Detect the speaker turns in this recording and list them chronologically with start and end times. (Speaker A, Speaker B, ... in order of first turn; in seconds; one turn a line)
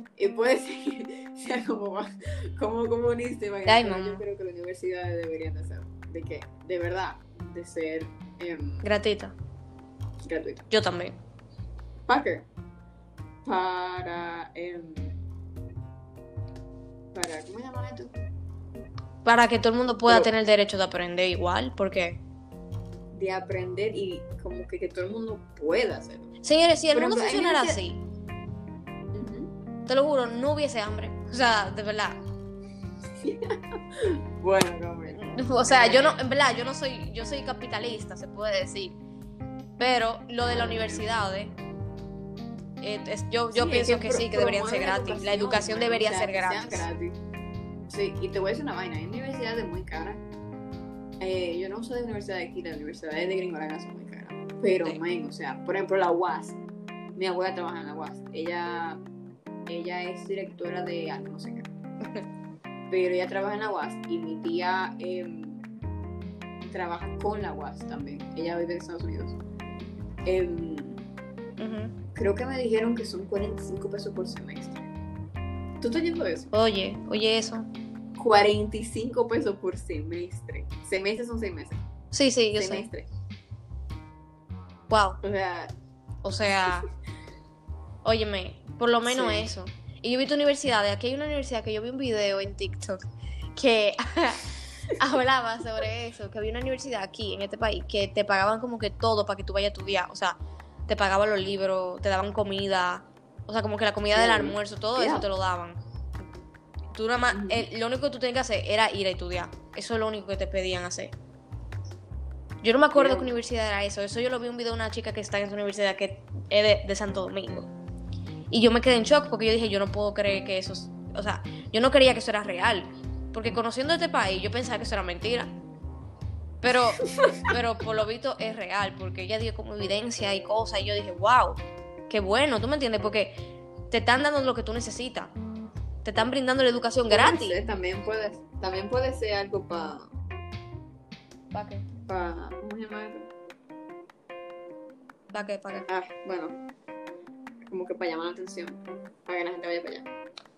Speaker A: 0.2-8.8
Speaker B: 3.7-4.2
Speaker B: 8.8-9.3
Speaker A: 10.2-10.7
Speaker B: 10.7-11.2
Speaker A: 12.1-12.5
Speaker A: 13.4-15.2
Speaker A: 17.1-18.1
Speaker B: 19.2-22.2
Speaker A: 23.1-26.3
Speaker B: 26.4-28.0
Speaker A: 26.9-27.8
Speaker A: 29.1-29.5
Speaker B: 29.9-32.2
Speaker A: 33.2-33.6
Speaker A: 34.4-36.1
Speaker B: 35.1-39.0
Speaker B: 39.8-41.5
Speaker A: 40.5-41.1
Speaker B: 42.8-46.9
Speaker A: 43.5-47.2
Speaker A: 47.9-50.2
Speaker A: 51.2-56.6
Speaker A: 57.2-59.0
Speaker A: 59.7-61.7
Speaker A: 62.9-65.6
Speaker A: 66.7-69.4
Speaker A: 70.2-71.0
Speaker B: 71.6-71.9
Speaker A: 72.1-74.8
Speaker A: 75.8-76.5
Speaker B: 76.5-77.7
Speaker A: 78.2-81.8
Speaker B: 82.1-82.9
Speaker A: 82.5-83.1
Speaker B: 84.9-85.2
Speaker A: 85.2-85.8
Speaker B: 86.2-86.9
Speaker B: 88.0-93.0
Speaker A: 89.0-89.5
Speaker B: 93.6-100.4
Speaker B: 100.9-105.8
Speaker A: 104.1-105.3
Speaker B: 106.9-111.2
Speaker A: 107.3-107.7
Speaker B: 112.6-117.7
Speaker A: 112.9-113.3
Speaker B: 118.5-125.5
Speaker B: 126.6-135.3
Speaker B: 136.0-137.6
Speaker A: 137.1-140.1
Speaker B: 141.5-141.8
Speaker A: 142.1-143.3
Speaker B: 145.3-145.9
Speaker A: 145.9-146.6
Speaker A: 147.7-150.1